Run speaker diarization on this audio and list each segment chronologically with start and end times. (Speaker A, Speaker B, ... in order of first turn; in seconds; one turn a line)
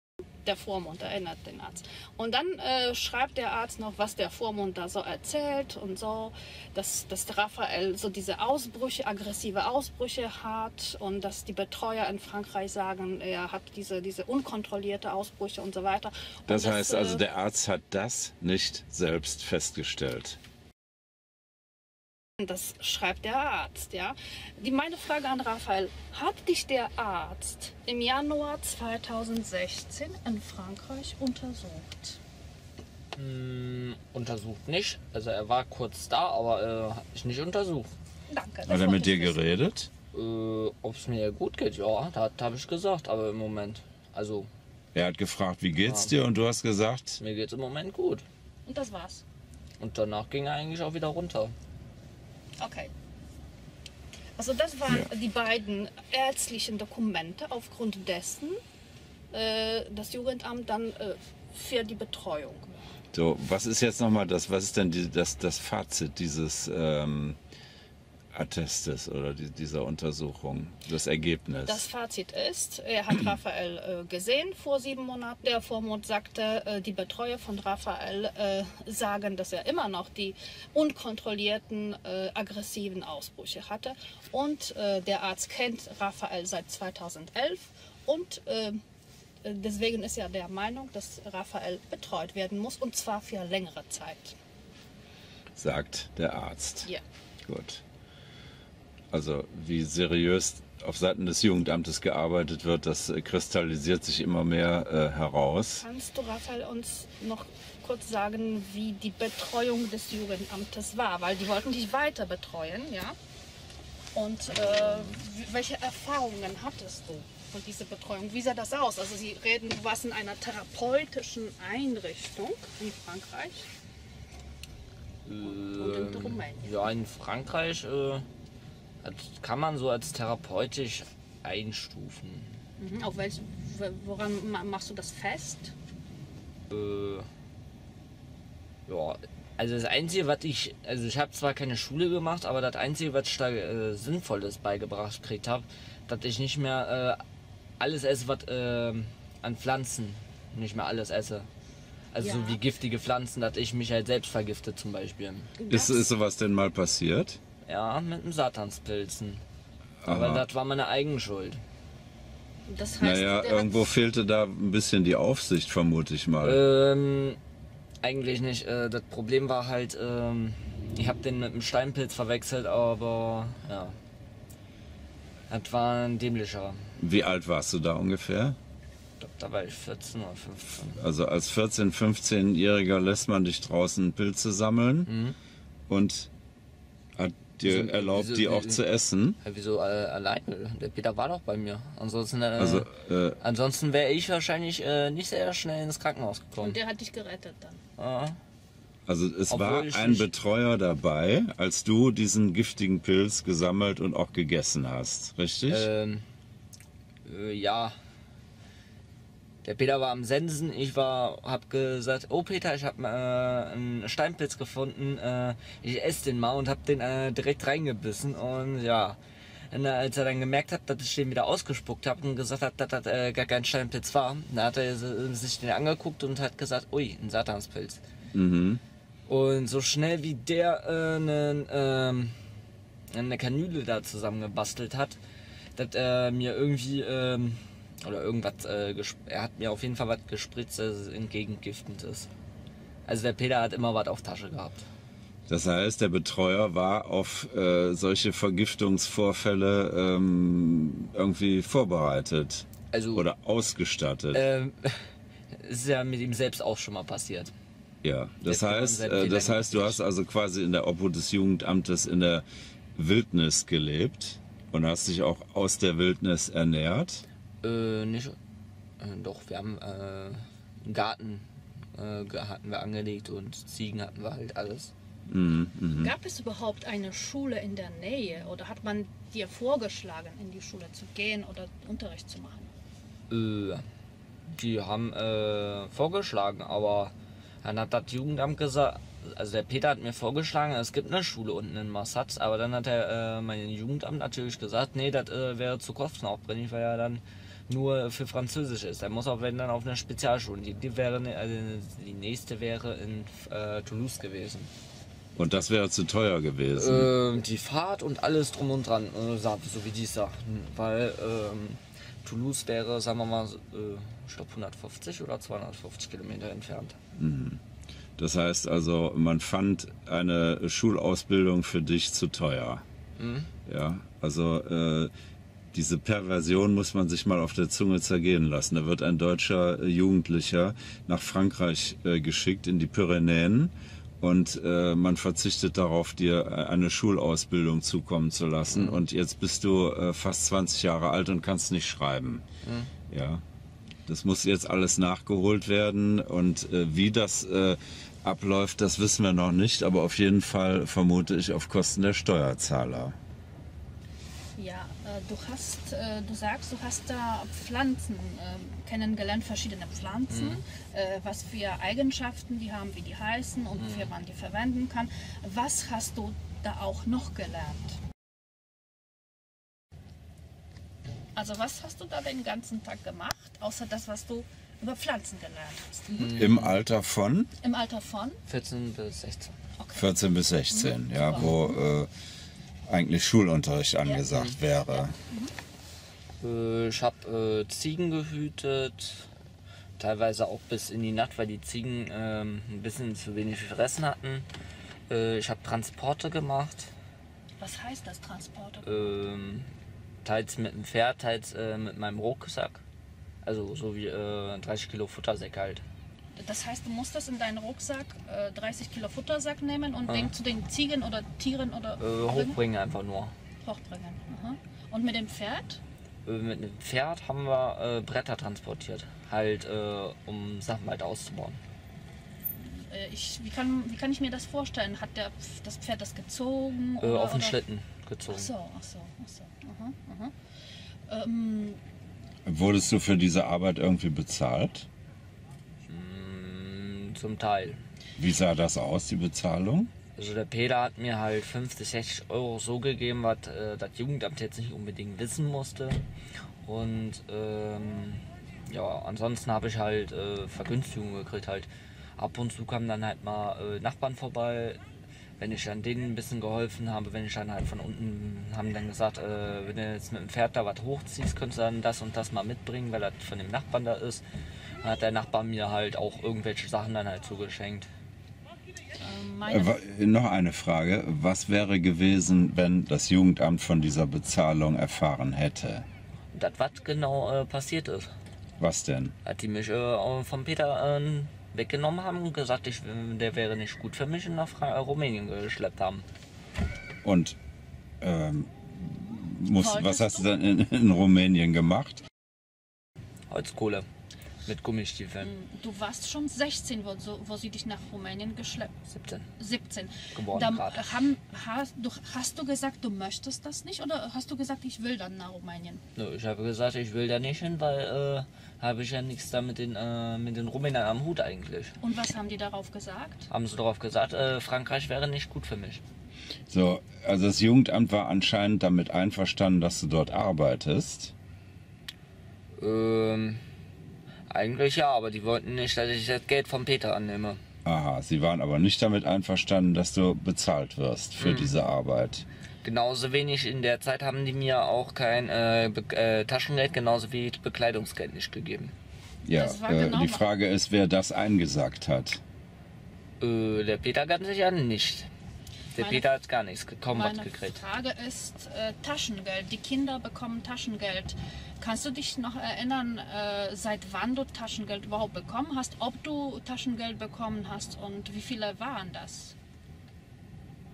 Speaker A: 0.5-17.2
Speaker B: 16.5-20.4
Speaker A: 22.4-32.2
Speaker C: 33.2-37.9
Speaker A: 38.3-39.4
Speaker B: 38.7-39.9
Speaker C: 40.1-44.5
Speaker B: 44.9-47.2
Speaker C: 45.8-46.1
Speaker C: 47.2-48.2
Speaker A: 48.7-49.2
Speaker C: 49.8-51.5
Speaker A: 52.6-52.9
Speaker A: 54.4-58.6
Speaker A: 59.3-62.8
Speaker B: 63.1-67.4
Speaker B: 68.3-71.8
Speaker A: 71.7-88.8
Speaker A: 89.4-94.4
Speaker B: 95.5-96.9
Speaker B: 97.5-97.8
Speaker B: 99.1-105.9
Speaker A: 105.8-113.2
Speaker A: 114.1-123.7
Speaker C: 114.6-115.2
Speaker C: 125.3-128.3
Speaker A: 125.4-126.7
Speaker C: 129.0-132.6
Speaker A: 132.8-135.7
Speaker C: 136.7-137.3
Speaker C: 138.9-147.2
Speaker C: 147.8-151.5
Speaker C: 152.1-155.6
Speaker A: 152.2-152.6
Speaker A: 155.6-156.1
Speaker B: 155.7-157.4
Speaker C: 157.7-159.4
Speaker B: 160.0-160.5
Speaker C: 160.1-161.6
Speaker A: 162.7-163.9
Speaker B: 163.0-166.6
Speaker C: 166.4-167.4
Speaker C: 168.0-174.0
Speaker C: 175.5-176.9
Speaker B: 177.0-178.6
Speaker C: 179.2-181.0
Speaker B: 181.0-185.1
Speaker C: 185.1-185.3
Speaker B: 185.9-186.3
Speaker B: 187.2-189.4
Speaker C: 187.6-188.8
Speaker C: 189.4-196.8
Speaker B: 192.6-193.4
Speaker A: 196.6-197.8
Speaker C: 198.0-198.4
Speaker B: 199.1-205.9
Speaker C: 199.5-200.3
Speaker C: 205.7-206.2
Speaker C: 207.2-207.9
Speaker C: 209.6-219.2
Speaker C: 219.7-228.0
Speaker B: 228.3-228.8
Speaker C: 229.3-232.4
Speaker C: 233.1-235.2
Speaker C: 235.8-242.3
Speaker C: 243.1-244.8
Speaker B: 245.5-254.5
Speaker C: 252.9-253.2
Speaker C: 254.3-257.5
Speaker B: 258.0-262.4
Speaker C: 258.4-260.0
Speaker B: 262.9-267.2
Speaker C: 267.6-268.4
Speaker C: 269.0-274.9
Speaker B: 275.3-276.1
Speaker A: 276.0-282.7
Speaker C: 283.3-283.9
Speaker C: 284.5-304.7
Speaker B: 305.4-307.1
Speaker C: 306.8-317.0
Speaker B: 317.2-317.6
Speaker B: 318.2-322.9
Speaker C: 323.2-323.5
Speaker B: 323.7-325.1
Speaker B: 325.7-342.5
Speaker C: 338.7-339.0
Speaker C: 342.6-342.9
Speaker B: 343.1-343.4
Speaker B: 344.1-353.2
Speaker A: 354.6-368.0
Speaker C: 360.3-360.6
Speaker C: 363.8-364.1
Speaker A: 371.4-376.4
Speaker C: 376.1-376.8
Speaker B: 376.4-377.5
Speaker A: 377.6-378.4
Speaker C: 378.5-379.6
Speaker A: 379.8-380.1
Speaker B: 379.9-382.1
Speaker A: 380.7-381.8
Speaker B: 382.9-385.1
Speaker C: 384.3-384.6
Speaker A: 384.9-385.5
Speaker C: 386.4-389.3
Speaker C: 390.0-394.5
Speaker C: 395.1-396.9
Speaker A: 397.6-398.9
Speaker C: 398.8-399.7
Speaker C: 400.2-402.8
Speaker C: 403.4-405.8
Speaker A: 406.4-412.6
Speaker C: 412.0-413.3
Speaker A: 413.6-415.8
Speaker C: 416.2-421.6
Speaker A: 422.5-427.6
Speaker C: 427.0-428.5
Speaker A: 428.3-430.3
Speaker A: 431.1-431.8
Speaker B: 432.5-434.9
Speaker C: 435.9-437.8
Speaker B: 438.2-439.9
Speaker C: 440.1-446.0
Speaker C: 446.6-454.8
Speaker C: 455.4-464.2
Speaker C: 464.8-467.9
Speaker A: 469.0-469.8
Speaker B: 469.5-475.9
Speaker C: 476.3-478.1
Speaker B: 478.6-479.1
Speaker C: 479.2-486.1
Speaker B: 487.0-487.4
Speaker B: 488.0-492.1
Speaker A: 489.6-490.4
Speaker C: 493.3-493.9
Speaker C: 494.4-495.3
Speaker A: 495.2-498.8
Speaker C: 498.9-499.3
Speaker A: 499.4-505.8
Speaker C: 500.1-500.9
Speaker C: 506.0-511.8
Speaker A: 511.8-513.3
Speaker C: 513.3-515.8
Speaker B: 516.5-521.1
Speaker C: 522.6-523.4
Speaker C: 524.3-527.4
Speaker B: 527.6-532.2
Speaker C: 531.2-531.5
Speaker C: 532.6-538.7
Speaker B: 539.2-542.2
Speaker A: 539.3-540.2
Speaker C: 543.2-545.1
Speaker C: 545.8-547.6
Speaker A: 545.8-546.1
Speaker A: 546.9-559.4